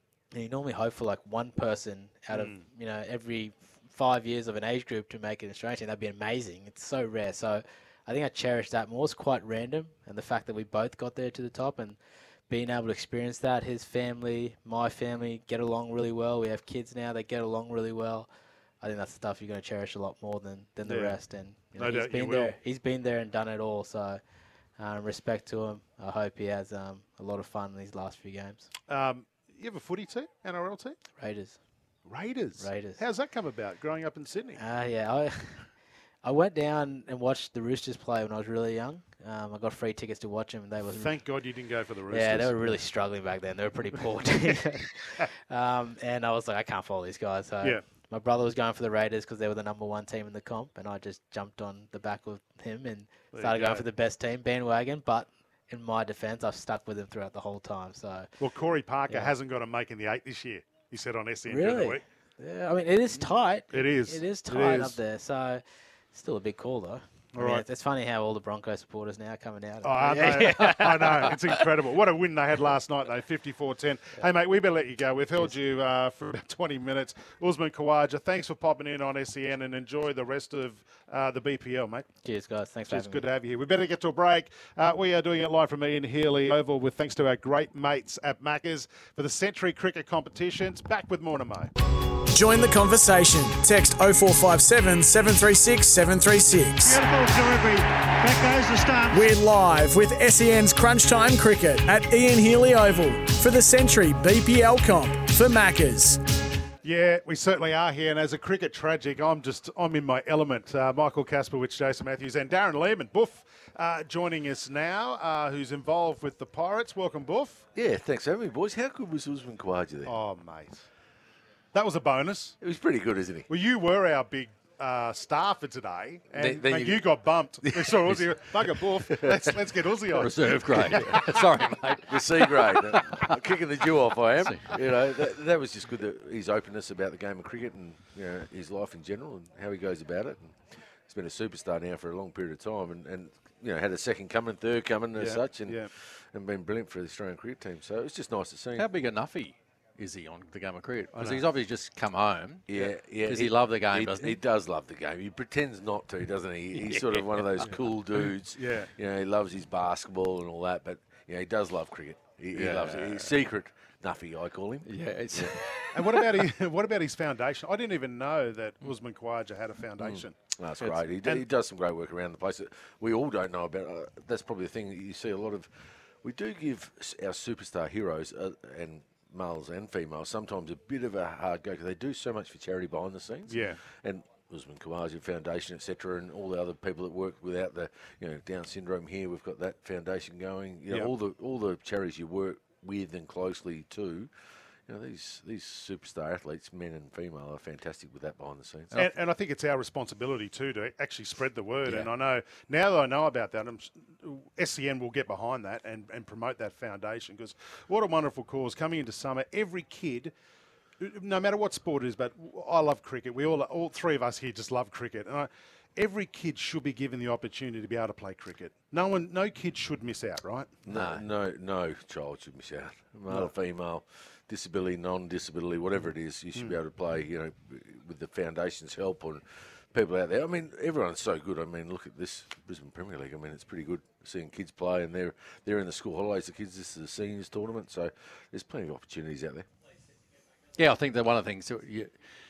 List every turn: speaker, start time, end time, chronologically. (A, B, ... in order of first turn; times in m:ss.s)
0:00.3-0:12.0 A
0:02.3-0:02.6 B
0:12.5-0:18.3 A
0:18.8-0:24.2 A
0:20.8-0:21.2 B
0:21.7-0:22.6 B
0:24.8-0:28.7 A
0:28.9-0:31.0 B
0:31.2-0:31.6 A
0:32.0-0:34.6 B
0:32.6-0:33.0 A
0:34.6-0:35.7 A
0:36.2-0:41.1 A
0:40.9-0:42.8 B
0:42.1-0:58.3 A
0:53.3-0:53.9 B
0:58.4-1:02.0 B
1:01.5-1:11.7 A
1:03.2-1:05.0 B
1:07.3-1:07.6 B
1:09.8-1:22.1 B
1:22.2-1:23.2 A
1:22.9-1:31.7 B
1:32.3-1:37.0 C
1:36.8-1:39.3 D
1:39.1-1:46.2 C
1:46.8-1:57.7 B
1:57.7-2:00.2 E
2:00.0-2:00.9 B
2:01.7-2:02.6 B
2:02.6-2:03.5 E
2:03.5-2:11.2 B
2:06.3-2:09.6 E
2:10.1-2:13.4 F
2:10.8-2:11.3 E
2:11.9-2:28.9 E
2:14.4-2:14.9 F
2:25.2-2:25.9 B
2:28.7-2:34.4 F
2:31.1-2:31.4 B
2:32.7-2:45.6 E
2:36.7-2:37.7 F
2:38.5-2:38.9 B
2:42.5-2:43.4 F
2:44.8-2:46.2 F
2:45.9-2:50.4 B
2:50.0-3:14.3 E
3:03.5-3:03.8 B
3:14.8-3:18.9 E
3:18.9-3:30.3 B
3:31.0-3:40.7 B
3:40.8-3:59.7 E
3:40.9-3:41.3 F
4:00.8-4:02.1 F